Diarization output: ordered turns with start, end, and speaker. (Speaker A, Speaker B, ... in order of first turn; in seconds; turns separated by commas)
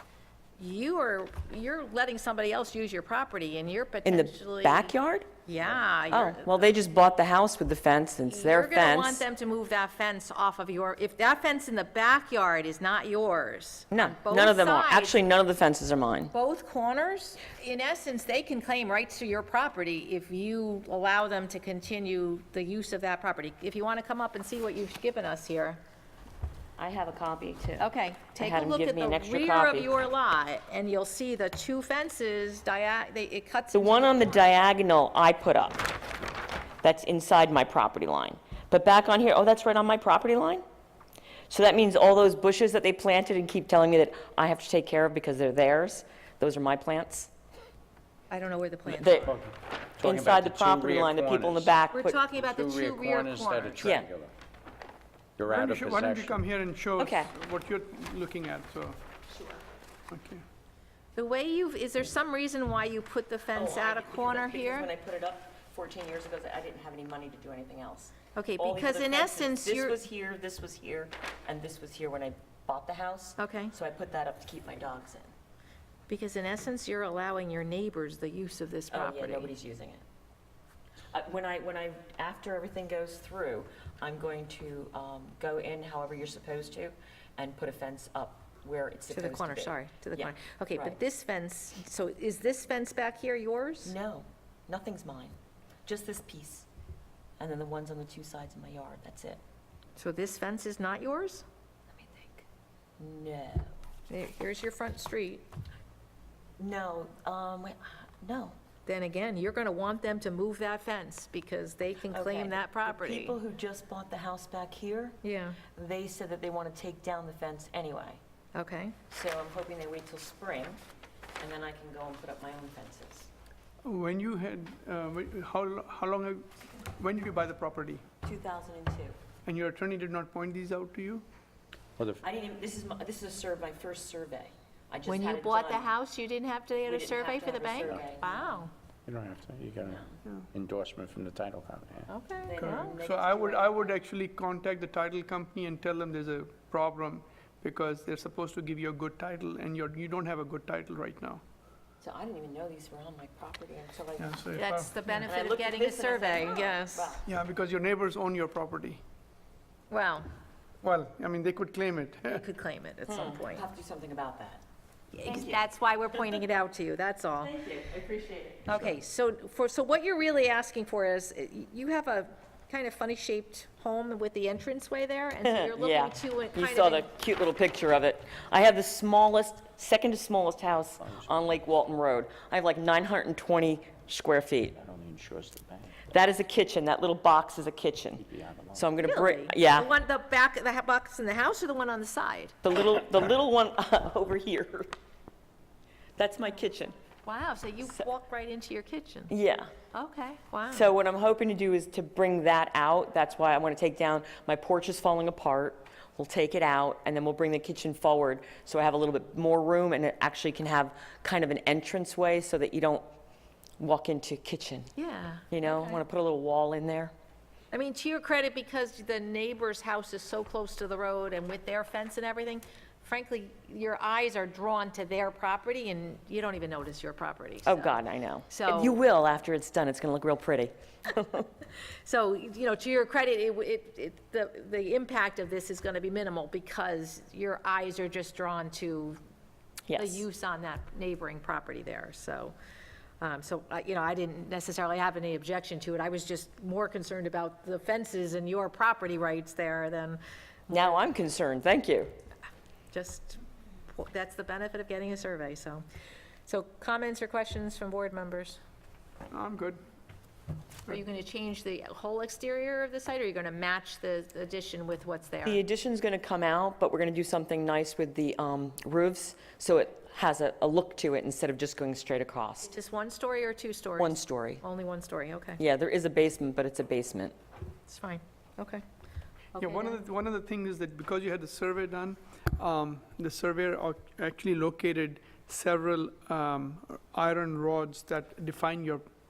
Speaker A: 0.6-4.9, Speaker B: 4.0-5.3, Speaker A: 5.5-6.7, Speaker B: 6.1-9.2, Speaker A: 8.3-15.2, Speaker B: 13.9-16.3, Speaker A: 16.3-25.8, Speaker B: 26.8-30.0, Speaker A: 27.8-34.5, Speaker B: 33.7-35.9, Speaker B: 36.8-40.6, Speaker B: 41.5-47.3, Speaker A: 48.3-49.3, Speaker B: 49.0-49.3, Speaker C: 49.0-51.8, Speaker B: 50.0-52.2, Speaker A: 51.9-54.0, Speaker C: 52.3-54.3, Speaker B: 53.8-54.1, Speaker C: 55.4-56.4, Speaker D: 55.5-59.0, Speaker B: 57.0-57.3, Speaker B: 59.3-59.6, Speaker D: 60.1-60.4, Speaker A: 61.1-64.9, Speaker B: 63.5-75.3, Speaker A: 68.3-70.0, Speaker A: 73.4-73.7, Speaker A: 76.1-79.5, Speaker B: 78.9-80.0, Speaker B: 81.1-91.0, Speaker A: 89.1-93.9, Speaker B: 93.8-96.7, Speaker B: 97.4-99.4, Speaker A: 100.0-101.4, Speaker B: 101.9-102.4, Speaker B: 103.0-103.8, Speaker A: 104.1-105.4, Speaker B: 106.6-108.5, Speaker A: 108.8-113.4, Speaker B: 112.1-118.2, Speaker A: 115.2-115.6, Speaker A: 118.5-119.0, Speaker B: 119.1-120.8, Speaker B: 121.4-123.3, Speaker D: 123.8-128.0, Speaker B: 128.2-129.2, Speaker D: 129.4-131.2, Speaker B: 132.2-135.9, Speaker A: 135.1-138.7, Speaker B: 136.8-138.6, Speaker C: 139.1-142.1, Speaker B: 139.8-140.2, Speaker A: 142.1-143.0, Speaker B: 142.4-143.9, Speaker D: 142.6-151.4, Speaker B: 152.0-154.4, Speaker D: 154.2-155.3, Speaker A: 154.5-157.2, Speaker B: 155.2-157.2, Speaker D: 157.2-159.0, Speaker A: 159.9-160.3, Speaker D: 160.8-162.4, Speaker A: 162.2-163.6, Speaker B: 163.1-164.6, Speaker A: 165.1-167.5, Speaker B: 165.2-165.6, Speaker B: 167.4-168.9, Speaker A: 168.7-177.1, Speaker B: 175.4-184.8, Speaker C: 181.0-181.5, Speaker C: 184.8-186.1, Speaker B: 186.1-189.9, Speaker C: 188.2-188.9, Speaker A: 189.0-192.5, Speaker B: 192.6-194.9, Speaker B: 196.2-196.9, Speaker A: 197.2-199.3, Speaker B: 199.3-199.7, Speaker A: 199.9-200.9, Speaker B: 200.7-213.1, Speaker B: 213.8-214.9, Speaker A: 214.9-216.0, Speaker B: 215.5-217.1, Speaker A: 217.7-229.0, Speaker B: 227.6-231.5, Speaker A: 232.1-239.2, Speaker B: 239.9-240.2, Speaker A: 240.0-242.5, Speaker A: 243.2-250.2, Speaker B: 250.7-252.1, Speaker A: 252.9-253.4, Speaker A: 253.9-255.8, Speaker A: 256.5-258.6, Speaker D: 259.3-259.8, Speaker A: 260.9-265.6, Speaker B: 265.4-272.8, Speaker A: 272.7-275.6, Speaker B: 274.0-274.6, Speaker B: 275.6-277.3, Speaker A: 277.9-278.8, Speaker A: 279.5-280.0, Speaker D: 279.6-289.0